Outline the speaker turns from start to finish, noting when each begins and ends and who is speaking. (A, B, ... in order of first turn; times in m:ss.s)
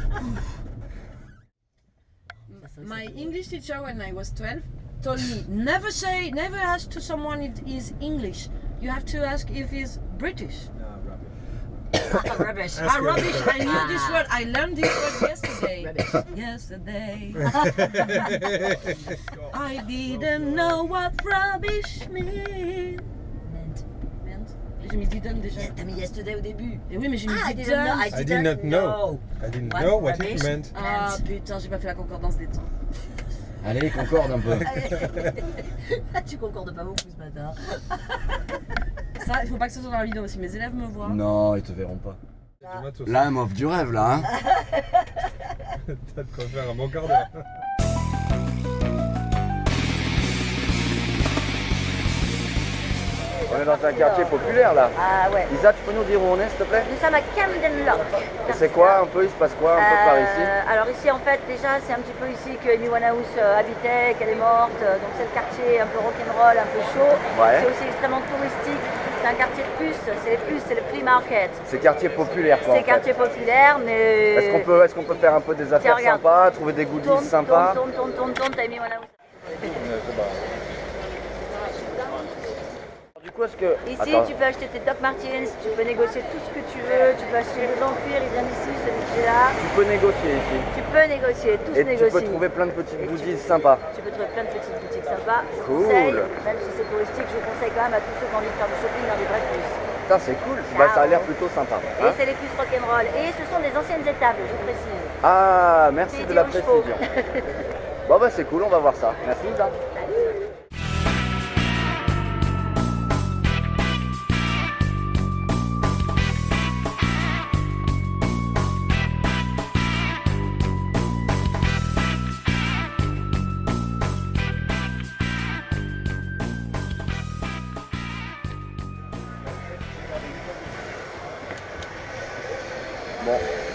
0:02.5-0:03.4 A
0:02.5-0:10.7 B
0:10.7-0:11.3 C
0:11.9-0:12.9 A
0:12.8-0:13.7 D
0:12.8-0:18.6 B
0:13.5-0:14.2 A
0:15.5-0:16.2 C
0:17.5-0:18.1 A
0:18.0-0:18.3 D
0:18.3-0:20.9 C
0:19.4-0:23.1 B
0:23.4-0:23.8 A
0:24.2-0:25.8 B
0:25.5-0:31.2 A
0:26.9-0:28.2 B
0:28.1-0:30.7 D
0:30.7-0:32.7 B
0:33.6-0:34.7 E
0:34.6-0:38.1 A
0:39.2-0:41.2 B
0:41.0-0:42.2 E
0:42.6-0:43.2 D
0:43.0-0:44.3 E
0:45.8-0:47.4 D
0:53.4-0:54.4 A
0:53.5-0:56.9 E
0:54.9-0:55.5 A
0:56.8-0:59.0 A
0:58.4-1:00.5 E
0:59.8-1:11.6 A
1:07.3-1:07.7 E
1:11.6-1:13.1 E
1:12.6-1:14.7 A
1:14.3-1:17.8 E
1:15.8-1:16.3 A
1:17.0-1:19.1 A
1:19.6-1:20.4 E
1:23.2-1:24.3 E
1:23.8-1:29.6 A
1:29.6-1:30.7 E
1:30.7-1:32.4 A
1:31.7-1:33.8 E
1:33.0-1:33.4 A
1:33.9-1:39.8 A
1:35.5-1:36.3 E
1:40.0-1:42.2 E
1:40.7-1:41.3 A
1:42.0-1:45.1 A
1:45.2-1:47.0 E
1:46.1-1:47.5 A
1:48.0-1:49.8 E
2:13.2-2:13.4 E